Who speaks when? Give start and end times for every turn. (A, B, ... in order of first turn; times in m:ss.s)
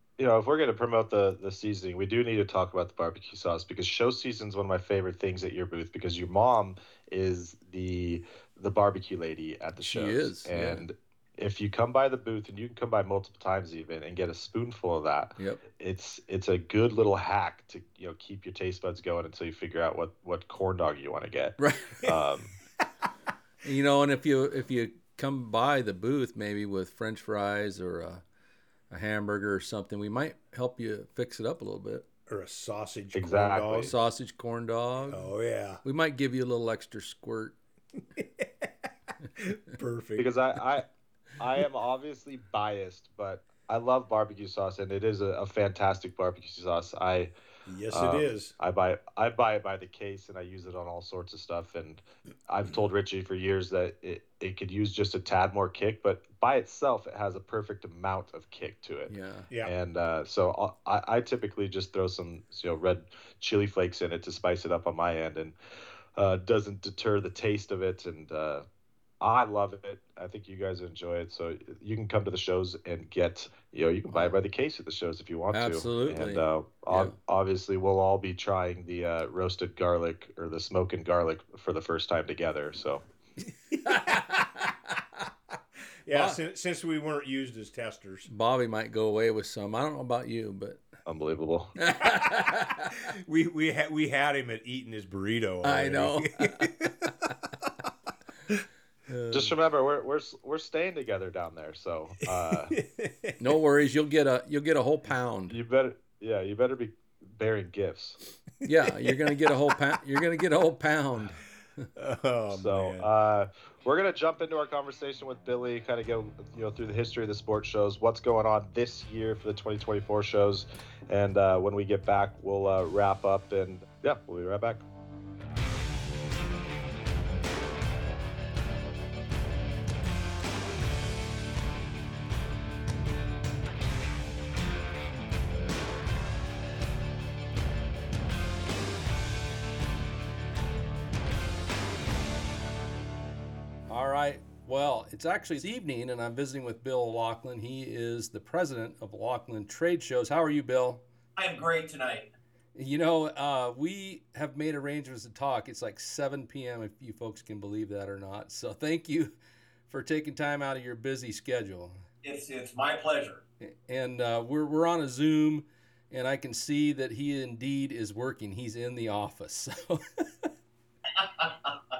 0:00.2-0:22.6 A
0:09.8-0:10.9 B
0:15.4-0:15.6 B
0:21.6-0:22.0 B
0:23.6-0:28.2 B
0:28.9-0:32.1 B
0:32.3-0:33.9 C
0:33.1-0:33.9 A
0:33.9-0:35.3 B
0:35.1-0:35.8 C
0:35.8-0:37.6 B
0:38.2-0:40.3 C
0:40.2-0:40.9 A
0:41.4-0:47.3 A
0:47.7-0:48.6 C
0:47.9-1:05.6 A
0:59.1-0:59.5 B
1:06.2-1:08.6 A
1:09.2-1:23.0 A
1:14.1-1:14.4 B
1:15.5-1:17.2 B
1:23.8-1:25.3 B
1:26.1-1:28.3 C
1:26.1-1:26.4 B
1:28.3-1:30.8 B
1:31.1-1:31.8 A
1:31.8-1:33.1 B
1:32.0-1:37.9 C
1:35.6-1:37.3 B
1:39.1-1:39.5 B
1:39.3-1:42.8 A
1:42.7-1:43.4 C
1:43.4-1:45.6 B
1:45.5-1:48.2 A
1:48.6-1:51.9 B
1:48.8-1:49.6 C
1:52.0-1:53.1 C
1:52.5-2:04.8 A
2:23.9-2:31.0 B
2:31.4-2:32.3 D
2:32.8-2:39.3 B
2:39.9-2:42.0 B
2:42.2-2:43.4 D
2:43.6-2:50.5 B
2:51.2-2:51.7 D